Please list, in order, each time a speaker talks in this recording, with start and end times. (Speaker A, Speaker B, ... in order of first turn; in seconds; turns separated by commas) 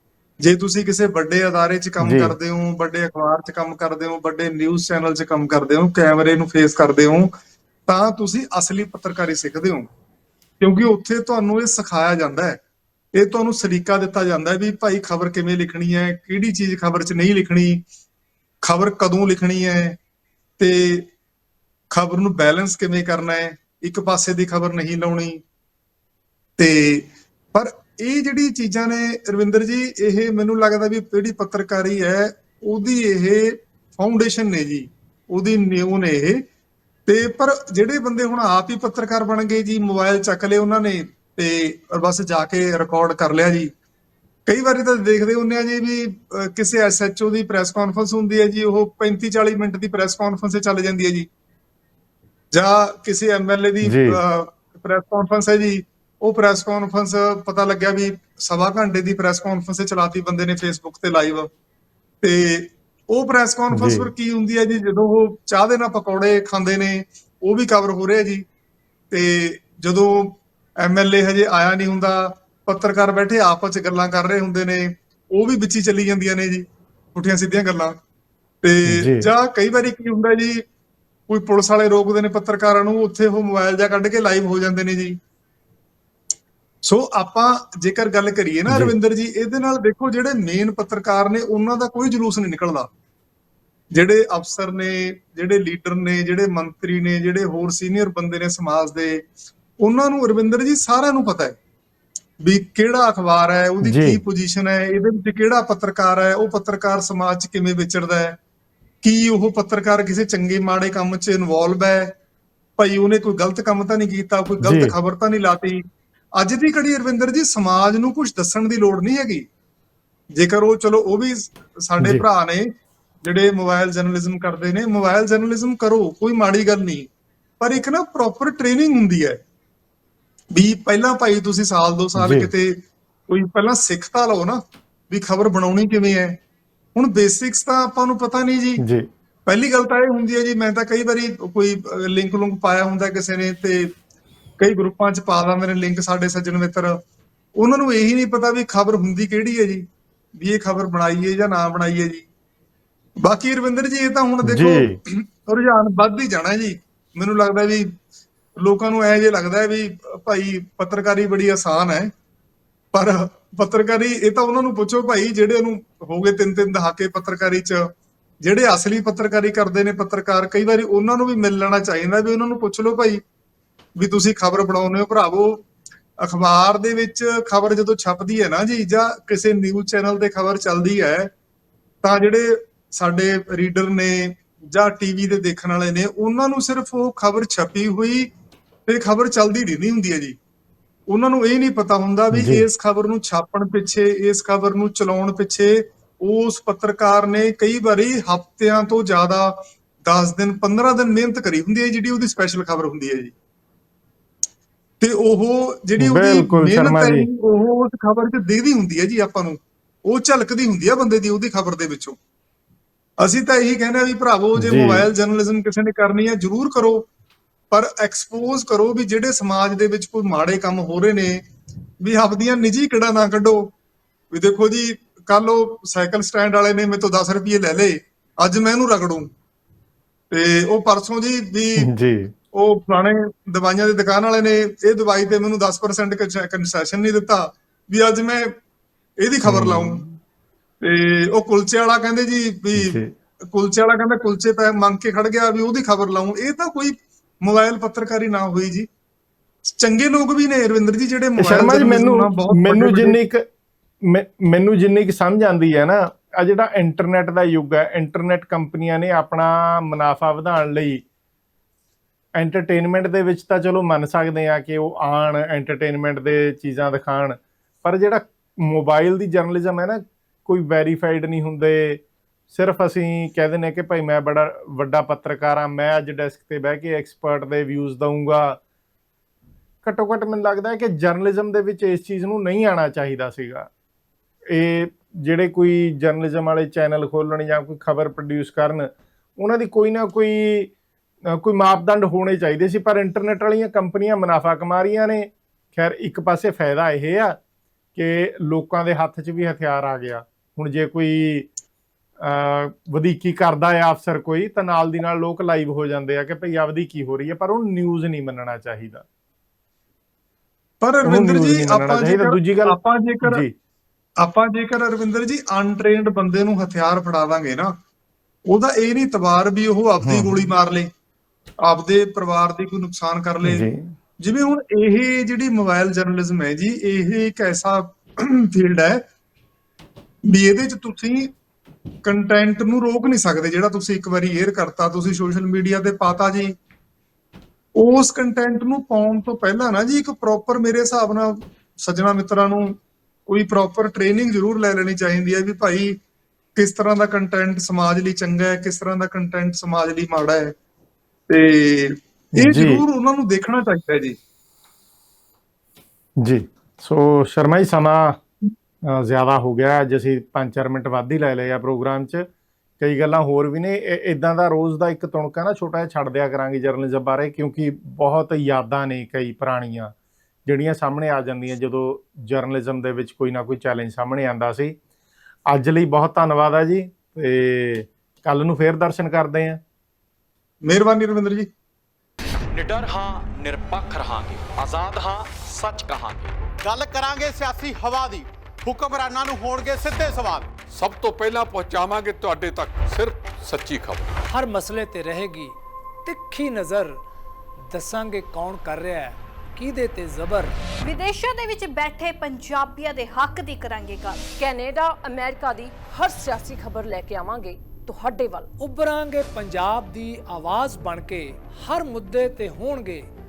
Speaker A: 0.4-7.3, Speaker B: 2.0-2.4, Speaker A: 7.9-9.9, Speaker A: 10.6-12.6, Speaker A: 13.2-17.8, Speaker A: 18.6-20.0, Speaker A: 20.6-21.1, Speaker A: 21.9-25.4, Speaker A: 26.6-36.4, Speaker A: 37.1-43.7, Speaker A: 44.5-51.3, Speaker A: 52.5-61.5, Speaker B: 53.8-54.2, Speaker A: 62.2-68.4, Speaker B: 63.7-64.1, Speaker A: 69.1-76.6, Speaker A: 77.2-78.0, Speaker A: 78.6-80.6, Speaker B: 78.9-79.3, Speaker A: 81.3-85.2, Speaker A: 86.9-92.9, Speaker B: 88.7-89.0, Speaker A: 93.9-99.2, Speaker A: 99.8-101.5, Speaker A: 102.4-108.4, Speaker B: 103.8-104.2, Speaker A: 109.0-112.1, Speaker A: 112.8-115.8, Speaker B: 114.6-114.9, Speaker A: 116.4-119.5, Speaker A: 120.4-122.7, Speaker B: 122.0-122.2, Speaker A: 123.2-127.1, Speaker A: 127.6-129.4, Speaker A: 130.5-132.8, Speaker B: 132.2-132.5, Speaker A: 133.3-136.4, Speaker A: 137.0-138.8, Speaker B: 138.8-139.1, Speaker A: 139.5-143.9, Speaker A: 144.6-147.0, Speaker A: 147.6-149.8, Speaker A: 150.4-152.2, Speaker A: 153.2-157.9, Speaker B: 154.4-155.0, Speaker A: 158.6-162.1, Speaker A: 162.9-167.9, Speaker A: 168.4-173.2, Speaker A: 174.0-175.6, Speaker A: 176.2-181.3, Speaker A: 182.0-188.3, Speaker A: 188.9-190.4, Speaker A: 191.1-203.3, Speaker B: 192.3-192.7, Speaker A: 205.0-212.2, Speaker B: 206.0-207.3, Speaker A: 213.2-217.1, Speaker B: 214.6-215.1, Speaker A: 217.7-221.4, Speaker A: 222.0-223.7, Speaker A: 224.3-229.3, Speaker A: 230.3-231.9, Speaker B: 231.8-232.3, Speaker A: 232.5-238.5, Speaker A: 239.2-240.0, Speaker B: 239.4-240.2, Speaker A: 240.8-243.0, Speaker B: 242.8-243.1, Speaker A: 243.5-248.9, Speaker A: 249.7-253.2, Speaker B: 251.4-253.4, Speaker B: 254.1-261.0, Speaker B: 262.4-278.6, Speaker B: 279.8-283.7, Speaker B: 284.5-290.7, Speaker B: 291.3-297.4, Speaker B: 297.9-301.5, Speaker B: 302.2-309.1, Speaker A: 310.8-313.4, Speaker B: 311.0-313.5, Speaker A: 314.2-317.8, Speaker A: 318.5-320.9, Speaker B: 320.0-320.4, Speaker A: 321.6-323.7, Speaker B: 323.4-323.9, Speaker A: 324.2-329.0, Speaker A: 330.3-331.3, Speaker A: 332.0-336.5, Speaker A: 337.8-342.8, Speaker A: 343.3-346.0, Speaker A: 346.6-350.5, Speaker A: 351.3-354.2, Speaker B: 352.4-352.8, Speaker B: 356.2-358.2, Speaker B: 358.9-362.3, Speaker B: 362.8-369.9, Speaker B: 370.5-374.8, Speaker B: 375.5-379.6, Speaker A: 380.6-381.5, Speaker C: 382.5-386.3, Speaker D: 386.6-390.5, Speaker E: 390.7-394.1, Speaker F: 394.3-397.0, Speaker F: 397.7-400.6, Speaker G: 400.8-404.2, Speaker H: 404.4-408.5, Speaker F: 408.6-413.1